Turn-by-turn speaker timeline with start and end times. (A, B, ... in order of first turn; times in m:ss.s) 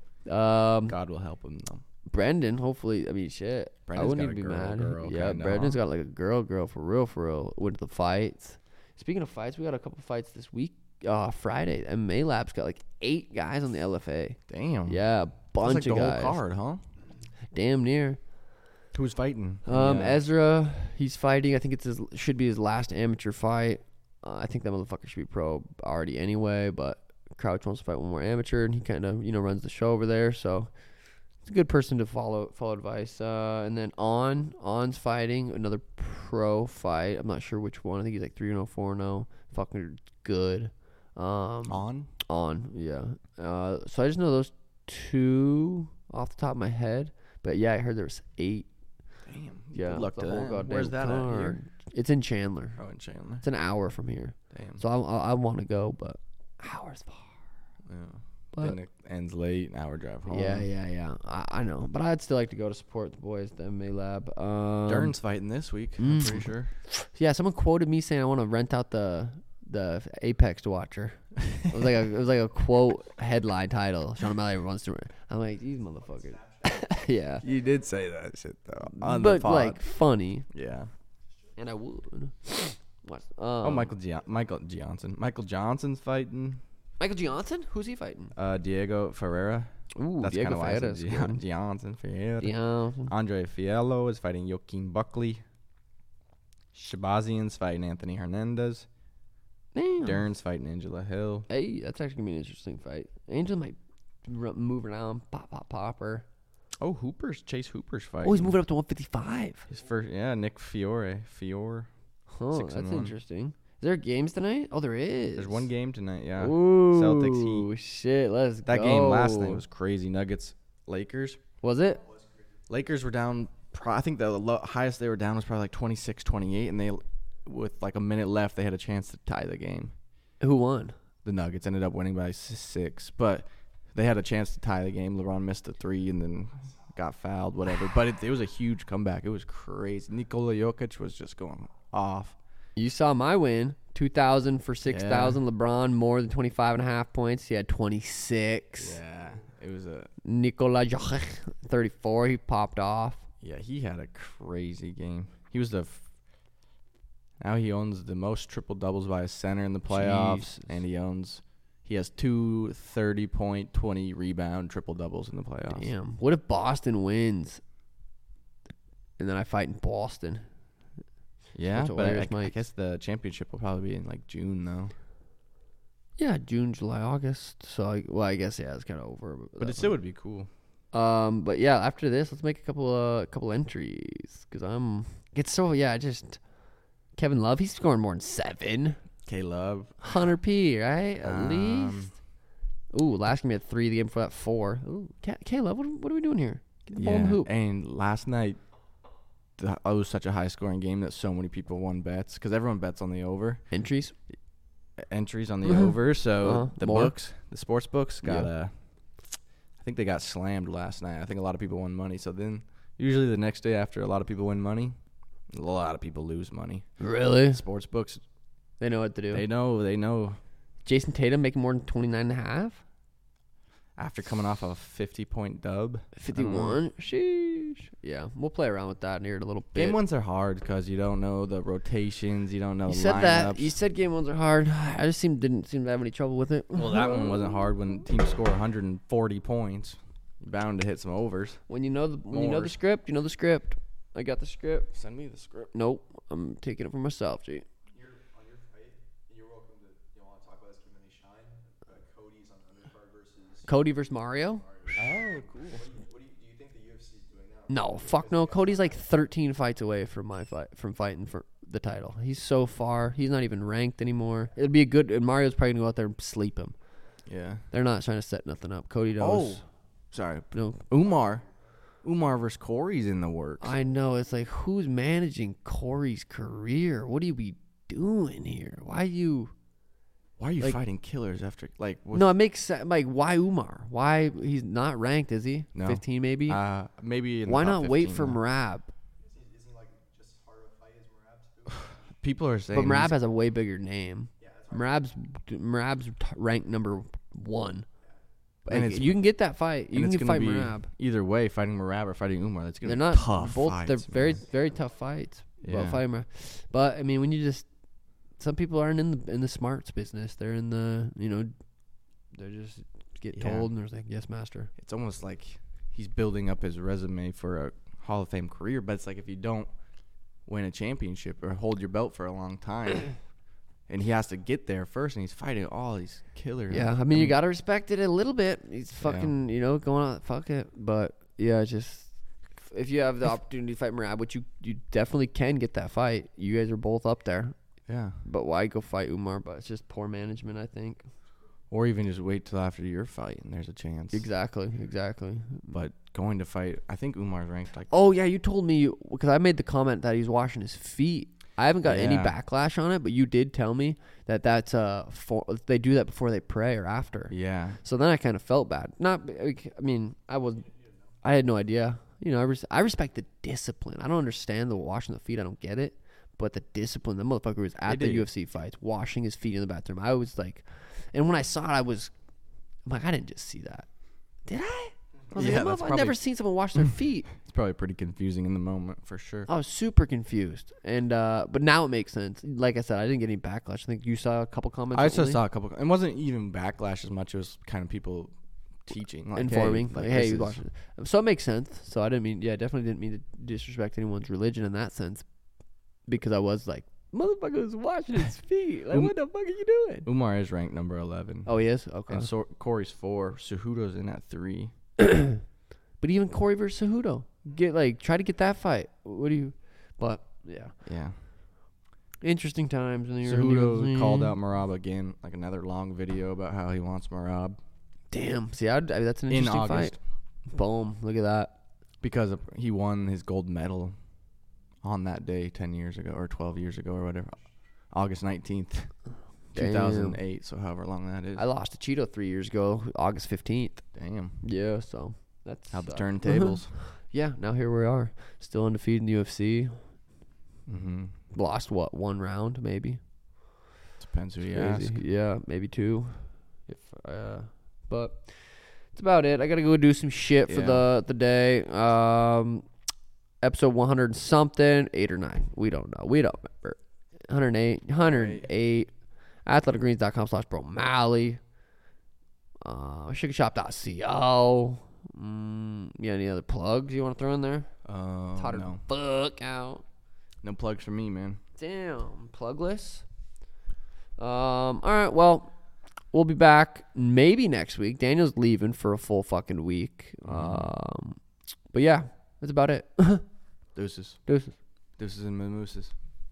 0:00.2-0:01.0 A
0:00.8-0:01.8 B
0:02.1-0:16.4 A
0:03.9-0:05.8 B
0:14.5-0:15.0 B
0:15.6-0:16.8 B
0:17.5-0:18.2 A
0:18.9-0:20.2 B
0:19.6-0:30.7 A
0:31.4-0:48.7 A
0:41.6-0:42.1 B
0:49.2-0:51.6 B
0:49.7-0:52.8 A
0:52.8-0:53.4 B
0:53.4-0:57.4 A
0:54.5-0:54.8 B
0:57.8-1:00.7 B
1:00.3-1:05.2 A
1:04.9-1:06.7 B
1:06.0-1:17.4 A
1:15.7-1:17.6 C
1:17.4-1:19.9 B
1:18.9-1:20.4 A
1:20.5-1:20.9 B
1:21.6-1:23.9 A
1:23.6-1:26.6 B
1:27.0-1:28.3 A
1:28.3-1:35.4 B
1:29.9-1:31.4 A
1:32.4-1:33.1 A
1:36.7-1:38.9 B
1:39.7-1:40.2 A
1:40.0-1:41.5 B
1:41.5-1:46.2 A
1:46.8-1:48.5 B
1:48.2-1:49.6 A
1:49.7-1:51.9 B
1:52.3-1:55.7 A
1:52.5-1:53.1 B
1:55.4-1:57.7 B
1:56.4-1:59.6 A
1:58.6-2:01.4 B
2:01.6-2:02.0 A
2:02.0-2:02.6 C
2:02.7-2:09.9 B
2:10.4-2:11.0 A
2:11.2-2:22.4 B
2:22.8-2:29.0 A
2:24.8-2:25.4 B
2:28.8-2:30.1 B
2:30.2-2:33.3 A
2:33.4-2:36.1 B
2:37.4-2:45.9 B
2:39.9-2:40.8 A
2:45.7-2:47.6 A
2:49.2-2:50.4 A
2:51.5-2:54.9 B
2:51.7-2:52.5 A
2:56.2-3:00.0 A
2:59.6-3:00.5 B
3:00.9-3:06.4 A
3:07.2-3:09.0 A
3:09.2-3:10.2 B
3:10.0-3:12.1 A
3:11.2-3:12.1 B
3:12.9-3:17.5 A
3:16.9-3:18.6 B
3:19.6-3:23.7 B
3:23.7-3:24.2 A
3:25.0-3:28.7 B
3:25.7-3:27.1 A
3:28.2-3:28.5 A
3:29.8-3:35.0 B
3:35.5-3:36.9 B
3:37.0-3:37.6 A
3:37.5-3:38.2 B
3:38.8-3:39.4 A
3:39.3-3:40.4 B
3:40.8-3:42.8 A
3:44.0-3:46.8 B
3:46.2-3:50.0 A
3:49.7-3:53.7 B
3:52.9-3:57.3 A
3:56.7-4:01.6 B
4:01.7-4:04.9 A
4:02.3-4:02.8 B
4:04.9-4:05.7 B
4:05.7-4:07.6 A
4:07.9-4:13.8 C
4:13.7-4:15.0 A
4:14.5-4:19.0 C
4:15.0-4:15.8 B
4:17.7-4:26.7 A
4:27.2-4:27.6 B
4:27.7-4:29.6 A
4:29.2-4:31.4 B
4:30.5-4:30.8 A
4:32.0-4:33.7 B
4:33.6-4:39.5 A
4:40.4-4:42.3 B
4:42.1-4:46.6 A
4:45.7-4:48.4 B
4:47.4-4:48.9 A
4:49.2-4:52.2 C
4:52.2-4:53.1 B
4:52.7-4:57.8 A
4:54.4-4:55.0 C
4:58.6-5:00.9 A
4:58.7-4:59.2 B
4:59.9-5:04.4 B
5:02.8-5:07.7 A
5:05.6-5:06.0 B
5:08.4-5:11.5 A
5:12.3-5:14.7 A
5:13.3-5:13.7 B
5:14.8-5:19.7 B
5:20.4-5:23.2 B
5:23.9-5:27.3 B
5:26.7-5:37.5 A
5:29.0-5:29.3 B
5:37.9-5:38.2 B
5:38.2-5:41.0 A
5:41.7-5:44.2 B
5:44.1-5:45.8 A
5:45.7-5:47.9 B
5:47.9-6:00.7 A
5:51.8-5:52.4 B
5:57.3-5:57.8 B
6:01.2-6:12.1 A
6:07.8-6:08.3 B
6:12.8-6:13.9 A
6:14.4-6:17.3 A
6:15.3-6:16.2 B
6:16.8-6:19.5 B
6:19.5-6:25.4 A
6:24.9-6:28.3 B
6:28.8-6:30.6 B
6:29.4-6:35.2 A
6:36.1-6:40.1 A
6:40.0-6:41.5 B
6:41.4-6:42.3 A
6:42.1-6:44.7 B
6:45.0-6:45.4 A
6:46.0-6:50.7 A
6:50.8-6:51.2 B
6:52.2-6:54.3 A
6:53.2-6:57.6 B
6:58.1-7:00.0 A
6:59.3-7:00.0 B
7:00.5-7:01.5 A
7:02.0-7:03.9 B
7:04.8-7:07.4 B
7:07.9-7:09.0 B
7:09.5-7:10.2 A
7:09.5-7:11.4 B
7:11.4-7:13.8 A
7:13.9-7:14.4 B
7:14.4-7:19.8 A
7:15.7-7:16.7 B
7:20.7-7:21.1 B
7:21.3-7:23.0 A
7:24.0-7:25.0 B
7:24.5-7:32.6 A
7:30.5-7:30.9 B
7:33.4-7:38.9 A
7:38.0-7:38.5 B
7:39.4-7:41.4 A
7:42.6-7:47.7 A
7:47.8-7:48.8 B
7:48.4-7:49.8 A
7:50.4-7:51.4 B
7:51.6-7:53.0 A
7:54.2-7:55.5 A
7:56.1-8:01.2 A
8:00.2-8:00.7 B
8:01.7-8:03.2 A
8:03.7-8:04.2 B
8:04.2-8:04.6 A
8:05.0-8:05.9 B